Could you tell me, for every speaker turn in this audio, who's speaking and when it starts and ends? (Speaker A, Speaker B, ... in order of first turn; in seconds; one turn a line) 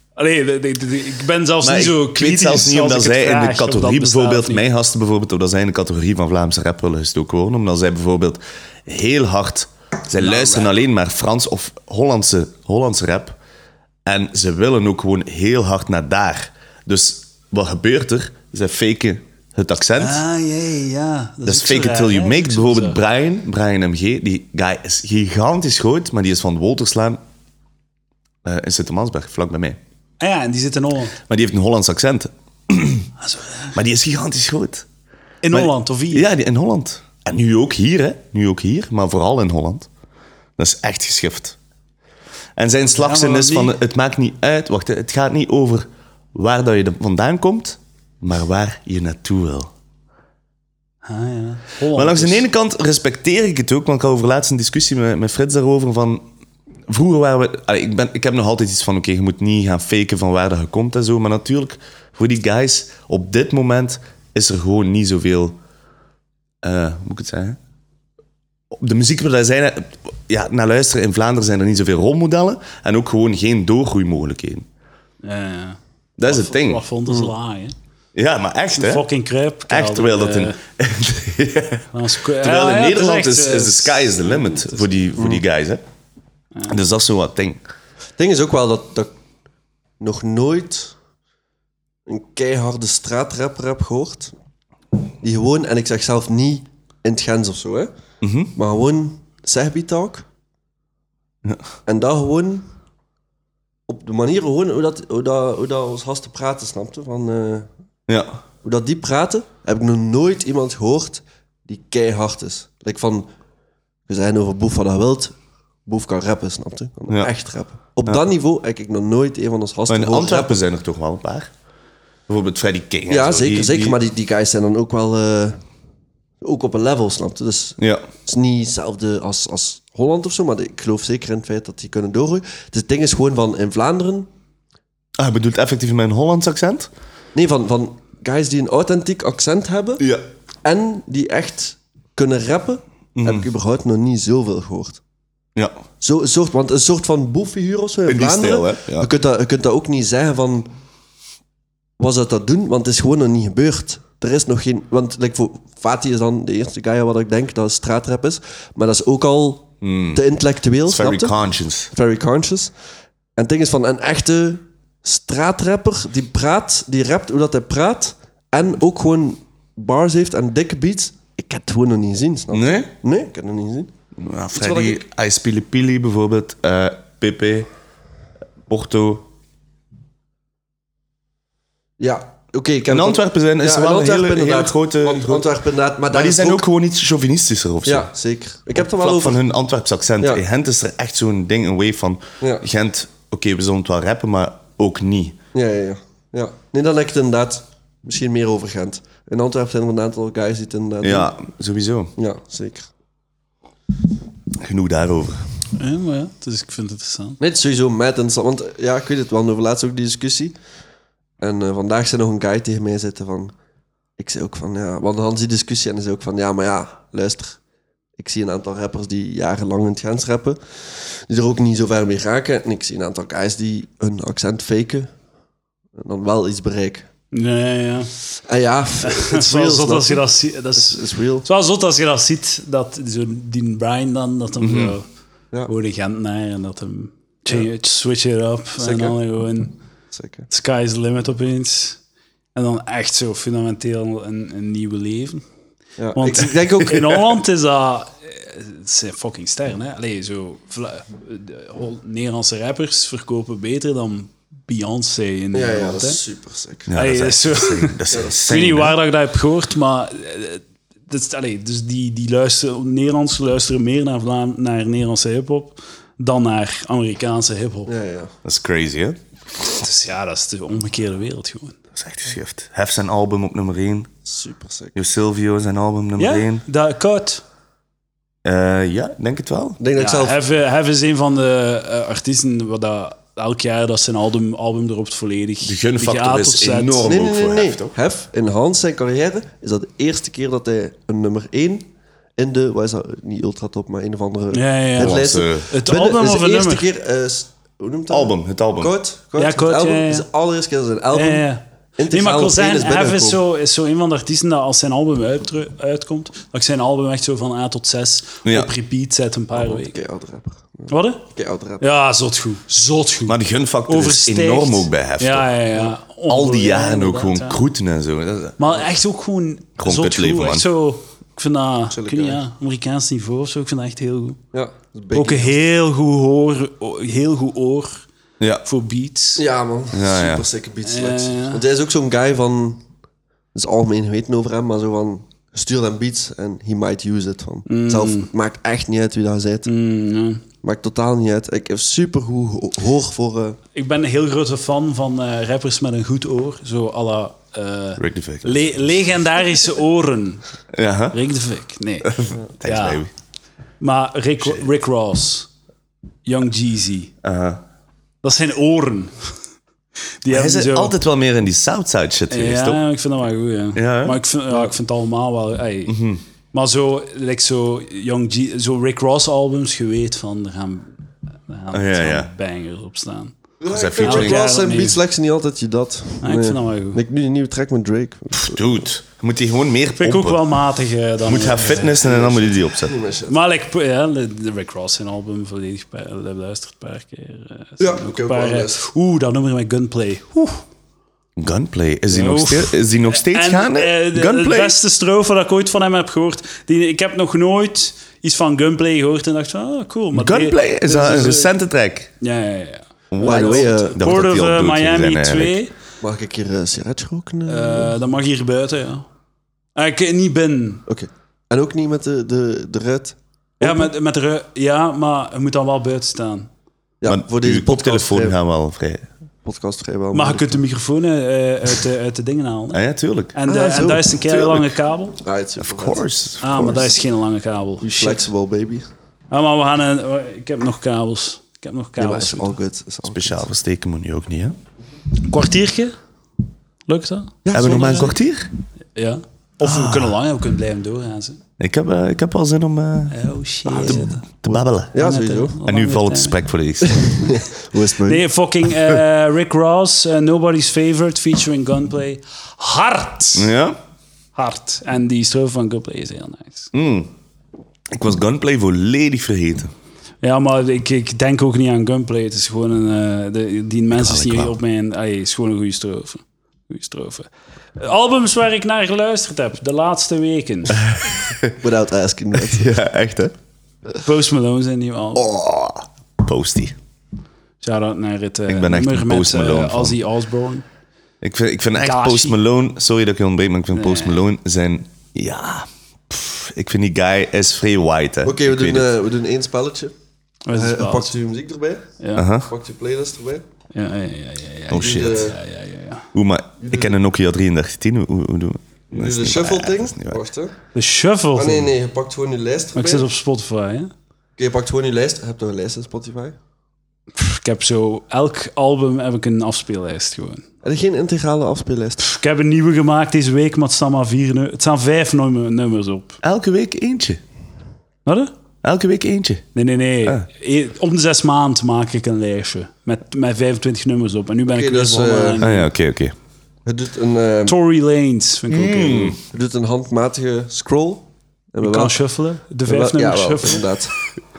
Speaker A: 0.2-4.6
Speaker B: 1.6-13.4
Speaker A: 10.2-10.7
Speaker B: 14.1-20.2
Speaker A: 20.0-23.0
Speaker B: 21.4-27.2
Speaker B: 28.4-29.8
Speaker A: 30.2-31.2
Speaker B: 31.3-33.1
Speaker A: 33.2-33.7
Speaker B: 33.7-34.9
Speaker A: 35.4-36.2
Speaker B: 35.5-39.9
Speaker B: 40.6-41.5
Speaker B: 42.6-49.7
Speaker A: 42.9-43.7
Speaker A: 51.0-52.4
Speaker B: 51.9-56.2
Speaker B: 56.9-65.6
Speaker B: 66.6-67.6
Speaker B: 68.7-74.7
Speaker A: 75.2-77.7
Speaker B: 76.2-76.8
Speaker C: 77.1-77.3
Speaker B: 78.1-79.1
Speaker A: 78.7-80.6
Speaker B: 79.7-81.9
Speaker A: 81.9-84.9
Speaker B: 82.4-85.8
Speaker C: 85.2-85.4
Speaker B: 86.7-87.6
Speaker C: 88.2-89.1
Speaker C: 90.0-91.0
Speaker C: 92.0-94.3
Speaker C: 95.2-97.9
Speaker B: 98.2-98.5
Speaker C: 98.5-100.2
Speaker C: 101.9-102.7
Speaker C: 103.9-107.7
Speaker B: 108.1-108.4
Speaker C: 108.6-113.3
Speaker C: 114.1-115.3
Speaker C: 115.8-120.5
Speaker B: 119.9-121.5
Speaker B: 122.3-124.0
Speaker C: 123.1-125.6
Speaker C: 126.4-134.3
Speaker B: 127.8-128.1
Speaker B: 135.2-136.9
Speaker C: 137.3-140.0
Speaker C: 140.6-145.0
Speaker B: 143.2-143.5
Speaker C: 146.0-150.7
Speaker B: 148.1-149.1
Speaker C: 152.0-161.3
Speaker B: 159.8-160.2
Speaker B: 160.9-161.9
Speaker C: 161.9-162.7
Speaker C: 163.3-173.9
Speaker B: 172.5-172.9
Speaker B: 174.2-177.7
Speaker C: 174.5-175.0
Speaker B: 178.7-179.3
Speaker C: 182.0-186.7
Speaker B: 182.9-185.4
Speaker B: 186.1-188.1
Speaker C: 187.8-189.4
Speaker B: 188.7-195.4
Speaker C: 195.5-201.3
Speaker B: 201.0-202.1
Speaker C: 202.2-202.9
Speaker B: 204.6-205.5
Speaker A: 205.8-207.4
Speaker C: 207.4-210.5
Speaker C: 211.4-213.5
Speaker C: 214.2-217.6
Speaker C: 218.2-225.1
Speaker C: 225.9-227.1
Speaker A: 227.3-228.1
Speaker C: 228.4-231.4
Speaker A: 229.0-235.1
Speaker B: 234.6-234.9
Speaker A: 235.7-239.8
Speaker C: 238.8-239.1
Speaker C: 240.1-240.5
Speaker A: 240.5-242.0
Speaker A: 242.5-245.4
Speaker C: 246.0-247.1
Speaker A: 246.1-256.2
Speaker C: 255.5-256.9
Speaker B: 256.9-258.9
Speaker A: 256.9-267.9
Speaker C: 267.9-268.3
Speaker B: 268.4-269.2
Speaker A: 269.7-271.8
Speaker B: 271.9-274.1
Speaker C: 274.2-274.9
Speaker B: 274.9-276.6
Speaker A: 276.2-277.4
Speaker B: 278.4-279.8
Speaker C: 279.8-280.4
Speaker A: 279.9-287.1
Speaker B: 285.6-287.9
Speaker C: 287.0-303.4
Speaker A: 294.5-296.9
Speaker B: 295.0-295.7
Speaker B: 298.1-298.9
Speaker A: 299.4-300.3
Speaker A: 301.1-309.9
Speaker B: 308.4-308.7
Speaker C: 309.5-311.8
Speaker A: 310.9-311.2
Speaker A: 311.8-317.6
Speaker B: 313.3-315.5
Speaker B: 316.3-318.6
Speaker A: 318.6-324.4
Speaker B: 319.8-320.6
Speaker C: 321.9-322.4
Speaker C: 324.5-325.6
Speaker A: 325.1-328.0
Speaker A: 328.6-329.4
Speaker C: 329.4-332.8
Speaker B: 329.9-330.4
Speaker A: 330.8-331.6
Speaker C: 333.5-339.7
Speaker A: 337.7-338.3
Speaker A: 339.6-340.4
Speaker C: 340.6-343.6
Speaker A: 343.7-350.4
Speaker B: 348.0-348.7
Speaker B: 350.7-351.2
Speaker A: 351.1-353.0
Speaker B: 352.0-353.1
Speaker A: 353.8-355.5
Speaker A: 356.2-357.1
Speaker B: 357.2-357.6
Speaker A: 358.2-359.4
Speaker A: 360.2-360.9
Speaker B: 360.3-362.8
Speaker A: 362.3-366.0
Speaker B: 363.8-364.2
Speaker B: 365.9-366.2
Speaker A: 366.5-370.9
Speaker A: 371.5-373.4
Speaker B: 371.7-372.3
Speaker C: 373.6-378.6
Speaker B: 373.7-374.4
Speaker A: 374.0-375.0
Speaker A: 376.2-377.0
Speaker B: 378.3-380.4
Speaker A: 380.0-382.2
Speaker B: 381.2-383.0
Speaker C: 382.0-383.4
Speaker A: 383.3-390.6
Speaker C: 387.8-388.8
Speaker B: 391.4-394.8
Speaker A: 392.1-401.5
Speaker B: 400.1-402.1
Speaker A: 402.2-405.7
Speaker B: 403.1-405.6
Speaker C: 403.2-404.0
Speaker C: 406.0-407.9
Speaker A: 407.4-409.1
Speaker A: 409.7-410.8
Speaker C: 410.9-413.9
Speaker A: 413.6-416.5
Speaker C: 417.0-418.4
Speaker B: 417.1-419.1
Speaker C: 419.4-420.6
Speaker A: 420.1-422.8
Speaker B: 422.7-423.4
Speaker A: 423.3-425.2
Speaker C: 423.5-424.1
Speaker B: 424.2-424.7
Speaker C: 425.2-426.8
Speaker B: 425.6-426.8
Speaker A: 426.4-428.2
Speaker C: 427.8-428.9
Speaker A: 429.3-432.6
Speaker C: 432.0-433.4
Speaker B: 433.0-434.6
Speaker A: 435.2-436.0
Speaker A: 436.9-437.9
Speaker C: 437.4-438.2
Speaker B: 437.5-438.5
Speaker A: 438.9-441.4
Speaker B: 439.6-440.1
Speaker B: 441.6-444.9
Speaker A: 443.1-444.2
Speaker C: 443.7-445.6
Speaker A: 444.9-446.4
Speaker B: 445.6-447.3
Speaker C: 446.9-448.2
Speaker A: 448.0-453.5
Speaker B: 453.4-453.8
Speaker A: 454.4-456.7
Speaker B: 456.7-457.1
Speaker B: 457.9-459.7
Speaker A: 460.2-470.8
Speaker B: 463.9-464.5
Speaker B: 470.8-471.5
Speaker C: 471.6-472.7
Speaker B: 472.4-473.3
Speaker A: 474.0-475.2
Speaker B: 475.1-476.8
Speaker A: 477.6-480.6
Speaker B: 478.5-480.0
Speaker B: 481.2-488.9
Speaker A: 481.8-482.4
Speaker A: 483.7-484.2
Speaker C: 488.2-489.9
Speaker A: 490.4-491.2
Speaker C: 490.5-491.9
Speaker A: 492.0-492.3
Speaker B: 492.1-492.5
Speaker C: 492.5-493.4
Speaker A: 493.7-496.1
Speaker B: 494.7-495.3
Speaker C: 494.7-495.4
Speaker B: 496.1-500.2
Speaker C: 496.6-496.9
Speaker C: 498.9-500.6
Speaker A: 500.7-501.7
Speaker C: 501.3-503.1
Speaker A: 502.7-503.9
Speaker C: 504.4-506.4
Speaker A: 507.1-510.4
Speaker C: 510.6-512.0
Speaker A: 512.0-516.2
Speaker B: 516.2-517.2
Speaker A: 518.0-518.3
Speaker B: 518.6-519.5
Speaker A: 519.5-525.7
Speaker C: 524.5-525.4
Speaker B: 525.4-526.1
Speaker C: 526.6-527.5
Speaker A: 527.5-529.2
Speaker B: 528.5-529.2
Speaker C: 529.3-532.0
Speaker A: 531.6-533.6
Speaker C: 532.6-533.9